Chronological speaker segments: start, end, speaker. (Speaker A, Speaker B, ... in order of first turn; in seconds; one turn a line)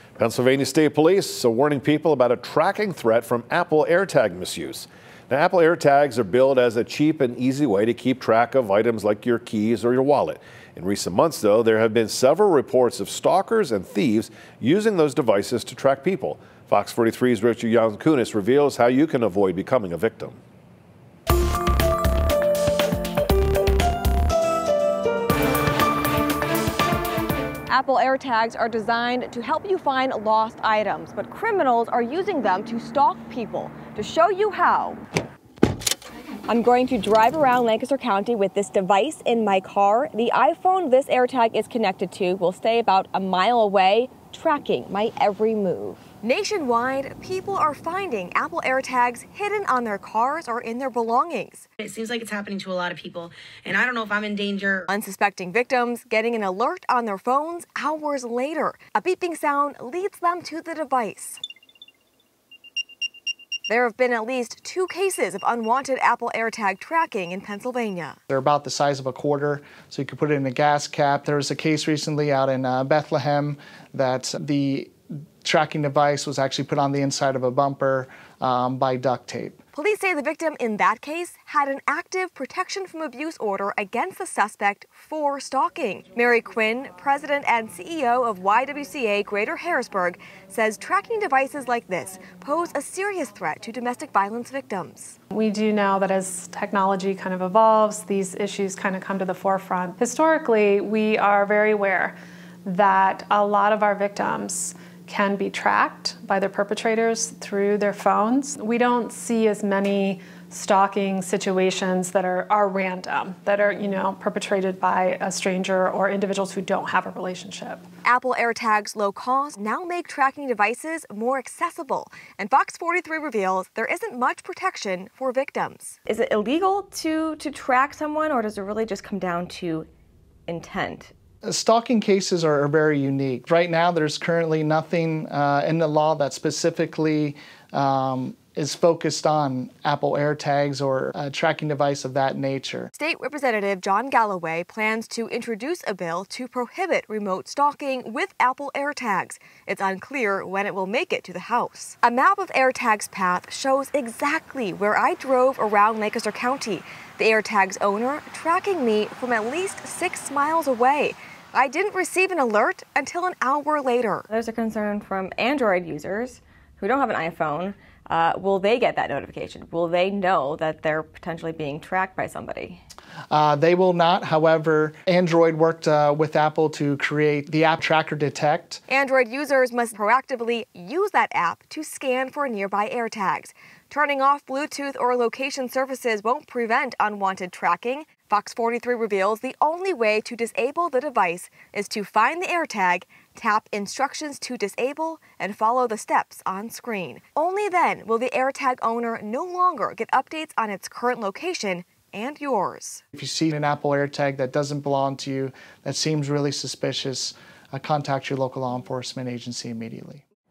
Speaker A: 0.3-4.9
Speaker A: 5.4-20.4
Speaker B: 27.7-35.0
Speaker B: 36.5-51.7
Speaker C: 51.8-54.8
Speaker B: 54.9-61.4
Speaker B: 63.7-68.2
Speaker D: 68.3-74.9
Speaker D: 75.4-79.6
Speaker B: 79.7-95.2
Speaker E: 95.3-117.8
Speaker B: 118.0-129.9
Speaker B: 130.5-131.1
Speaker D: 131.4-142.9
Speaker B: 142.9-172.8
Speaker D: 173.3-178.8
Speaker B: 178.9-203.0
Speaker D: 203.1-210.2